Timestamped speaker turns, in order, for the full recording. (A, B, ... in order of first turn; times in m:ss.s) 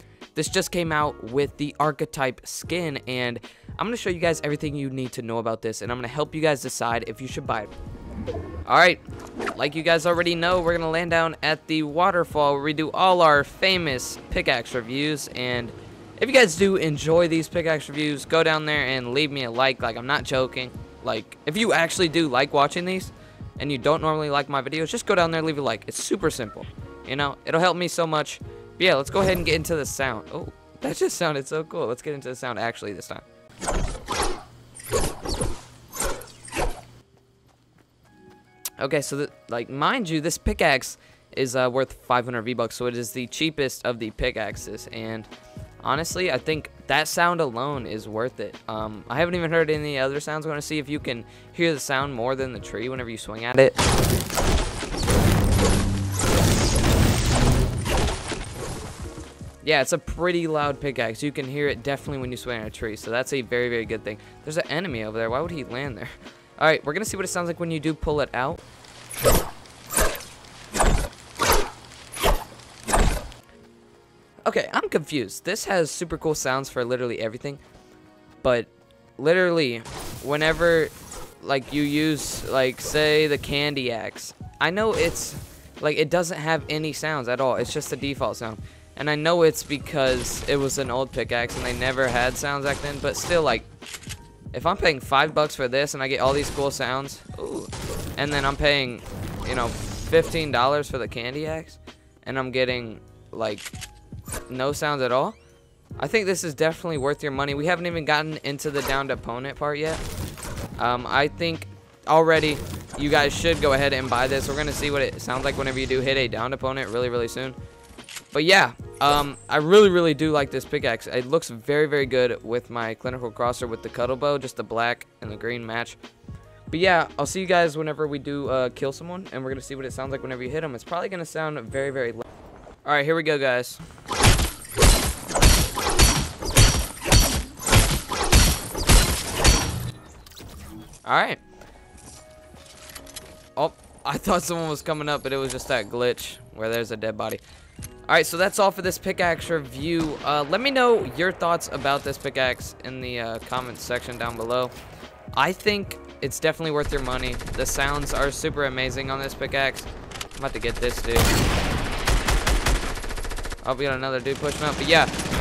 0:00.4-0:07.7 A
0:08.7-0:33.2 A
0:38.8-0:45.3 A
0:45.8-0:53.8 A
0:59.6-1:08.6 A
1:14.4-1:17.6 A
1:18.4-1:33.7 A
1:34.5-1:43.7 A
1:44.5-1:45.4 A
1:46.0-1:50.0 A
1:50.8-1:57.6 A
1:58.3-2:06.0 A
2:06.7-2:12.2 A
2:12.8-2:13.8 A
2:21.0-2:21.4 A
2:23.6-2:27.4 A
2:28.1-2:34.7 A
2:35.4-2:41.3 A
2:43.6-2:45.1 A